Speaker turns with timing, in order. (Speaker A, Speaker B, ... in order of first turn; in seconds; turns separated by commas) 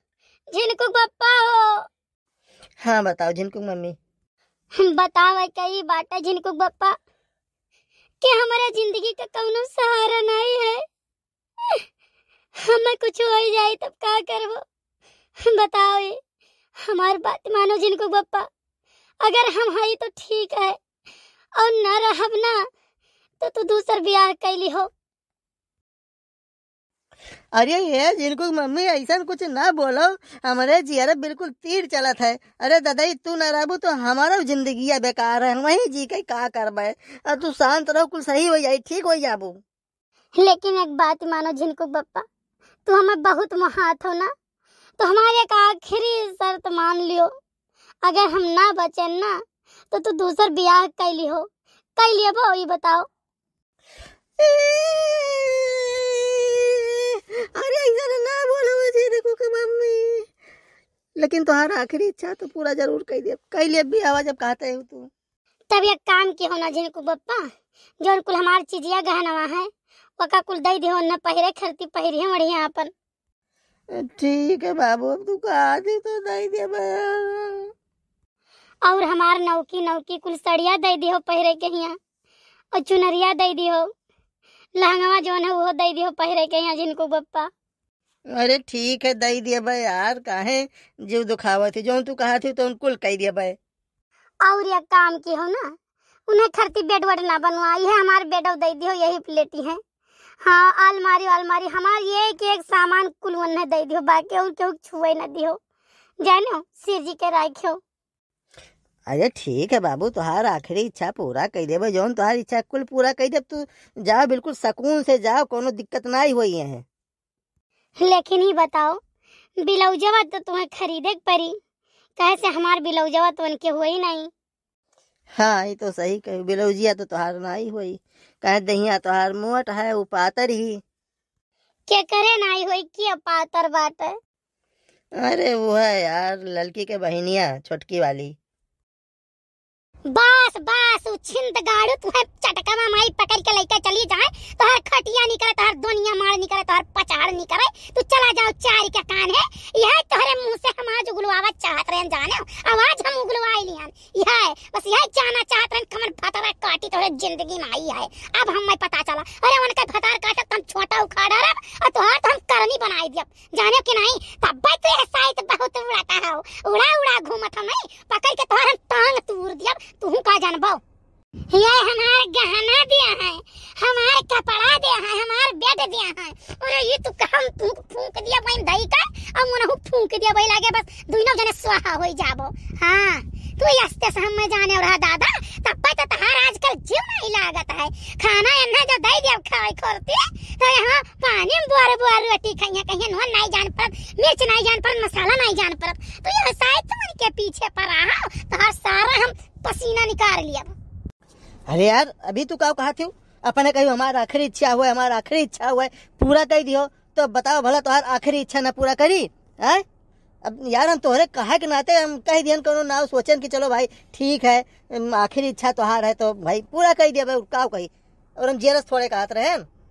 Speaker A: 0.5-1.9, Speaker B: 2.8-4.0, Speaker A: 4.8-7.0, Speaker A: 8.2-10.8, Speaker A: 12.6-14.6, Speaker A: 15.5-16.2, Speaker A: 16.9-18.5, Speaker A: 19.2-20.8, Speaker A: 21.6-22.6, Speaker A: 23.4-24.9, Speaker B: 27.6-39.6, Speaker A: 40.4-42.3, Speaker A: 42.9-44.3, Speaker A: 45.0-47.3, Speaker A: 48.0-49.4, Speaker A: 49.9-53.1, Speaker B: 54.4-60.3, Speaker B: 61.2-65.1, Speaker A: 65.7-67.5, Speaker A: 68.0-72.9, Speaker B: 73.9-77.7, Speaker A: 78.8-82.0, Speaker A: 82.7-83.9, Speaker A: 84.8-87.5, Speaker B: 88.3-93.6, Speaker A: 94.4-95.7, Speaker A: 96.3-99.8, Speaker A: 100.4-105.6, Speaker A: 106.2-107.8, Speaker B: 109.1-116.8, Speaker A: 118.0-119.0, Speaker A: 119.6-121.5, Speaker A: 122.2-124.3, Speaker B: 125.4-130.8, Speaker A: 131.9-134.2, Speaker B: 135.2-138.3, Speaker A: 140.1-170.8, Speaker A: 171.5-200.7, Speaker B: 201.7-209.8, Speaker B: 210.4-219.7